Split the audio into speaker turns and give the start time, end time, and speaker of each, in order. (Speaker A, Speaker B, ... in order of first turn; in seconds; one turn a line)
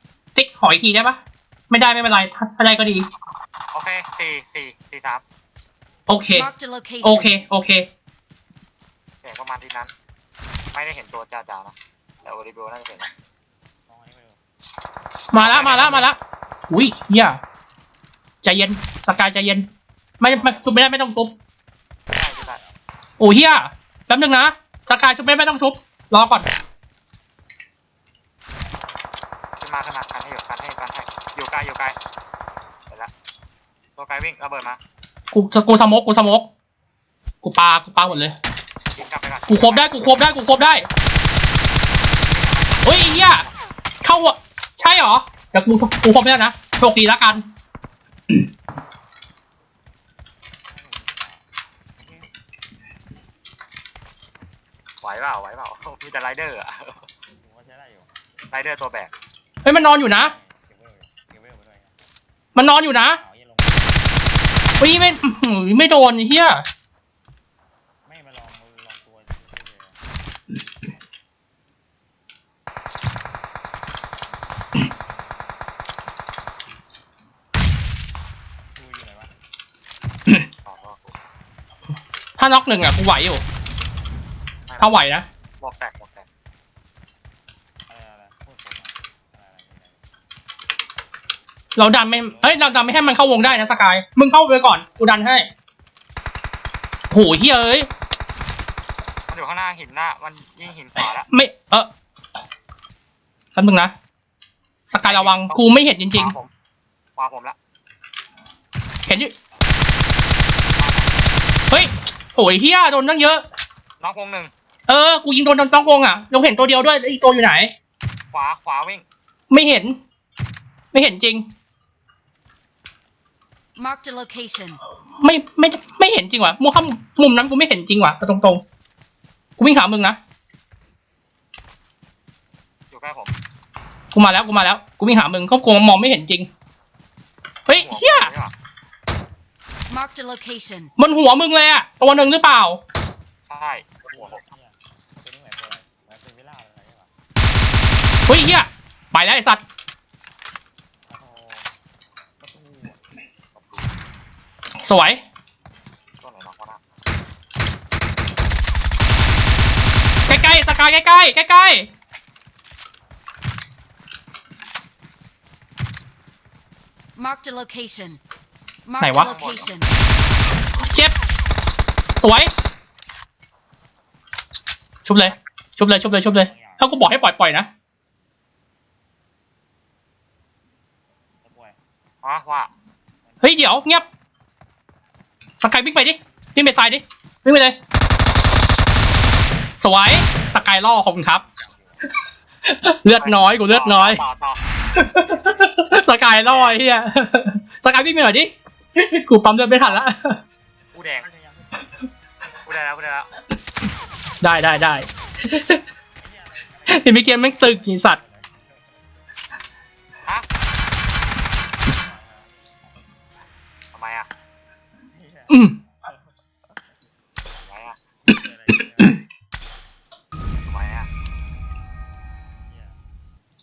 Speaker A: 0.3-1.2
Speaker A: 1.7-3.1
Speaker B: 3.7-5.2
Speaker A: 6.1-6.5
Speaker C: 6.3-7.3
Speaker A: 7.0-7.9
Speaker B: 9.2-9.9
Speaker B: 10.7-13.1
Speaker D: 13.9-14.4
Speaker A: 15.3-16.2
Speaker B: 15.4-16.1
Speaker A: 16.7-17.4
Speaker A: 18.4-19.7
Speaker A: 20.2-21.3
Speaker B: 20.3-20.6
Speaker B: 22.1-22.6
Speaker A: 23.2-26.5
Speaker D: 28.5-29.1
Speaker B: 29.6-32.0
Speaker B: 34.0-34.8
Speaker A: 35.3-36.5
Speaker A: 37.4-38.4
Speaker B: 38.9-39.9
Speaker A: 39.5-40.9
Speaker B: 42.2-43.5
Speaker A: 42.8-43.5
Speaker A: 44.0-47.4
Speaker D: 50.6-52.3
Speaker B: 55.0-57.1
Speaker D: 57.4-58.1
Speaker B: 58.5-59.1
Speaker A: 59.6-60.3
Speaker D: 59.7-62.0
Speaker A: 62.5-63.2
Speaker D: 63.1-64.2
Speaker A: 64.8-66.6
Speaker D: 68.0-70.0
Speaker D: 75.1-75.5
Speaker D: 78.7-79.3
Speaker B: 80.6-81.1
Speaker A: 82.4-83.4
Speaker B: 84.7-85.0
Speaker A: 84.8-85.2
Speaker B: 85.6-86.2
Speaker D: 87.9-90.0
Speaker A: 91.8-95.5
Speaker D: 92.1-93.2
Speaker A: 97.1-97.9
Speaker B: 99.3-101.3
Speaker A: 101.3-101.9
Speaker A: 103.5-103.9
Speaker A: 104.9-106.3
Speaker B: 105.0-105.6
Speaker B: 106.1-106.5
Speaker B: 107.2-107.5
Speaker A: 109.0-109.3
Speaker B: 110.8-111.2
Speaker A: 111.7-113.4
Speaker B: 114.0-114.5
Speaker A: 114.9-117.7
Speaker B: 118.3-119.0
Speaker A: 119.5-120.0
Speaker A: 120.9-121.5
Speaker C: 123.8-124.8
Speaker A: 125.2-128.6
Speaker A: 129.6-130.2
Speaker B: 132.9-133.3
Speaker A: 134.1-136.5
Speaker A: 137.7-138.3
Speaker B: 137.7-138.5
Speaker C: 139.9-140.9
Speaker A: 141.0-142.8
Speaker B: 143.5-144.4
Speaker D: 144.1-147.1
Speaker A: 148.3-149.6
Speaker D: 151.1-151.7
Speaker D: 152.4-153.0
Speaker B: 153.5-154.0
Speaker A: 154.8-155.2
Speaker B: 156.2-156.8
Speaker A: 160.3-161.9
Speaker C: 167.1-168.2
Speaker C: 168.8-169.9
Speaker A: 169.0-169.3
Speaker B: 169.2-169.8
Speaker A: 170.8-171.1
Speaker A: 172.2-172.5
Speaker A: 175.0-177.7
Speaker D: 176.1-176.8
Speaker D: 181.4-181.8
Speaker B: 182.2-182.7
Speaker D: 183.2-184.0
Speaker A: 183.4-184.1
Speaker A: 185.6-187.8
Speaker A: 189.8-191.4
Speaker D: 190.3-192.1
Speaker A: 192.7-194.2
Speaker B: 193.2-194.6
Speaker A: 194.9-200.4
Speaker D: 195.1-195.9
Speaker B: 196.4-196.8
Speaker B: 200.9-201.3
Speaker D: 201.2-201.9
Speaker B: 202.6-203.3
Speaker A: 204.4-205.8
Speaker D: 206.2-209.0
Speaker A: 206.9-208.2
Speaker D: 211.5-212.8
Speaker B: 213.9-214.3
Speaker D: 215.1-216.8
Speaker A: 215.5-215.7
Speaker B: 217.6-217.9
Speaker D: 218.2-219.2
Speaker B: 220.6-221.1
Speaker D: 222.6-223.0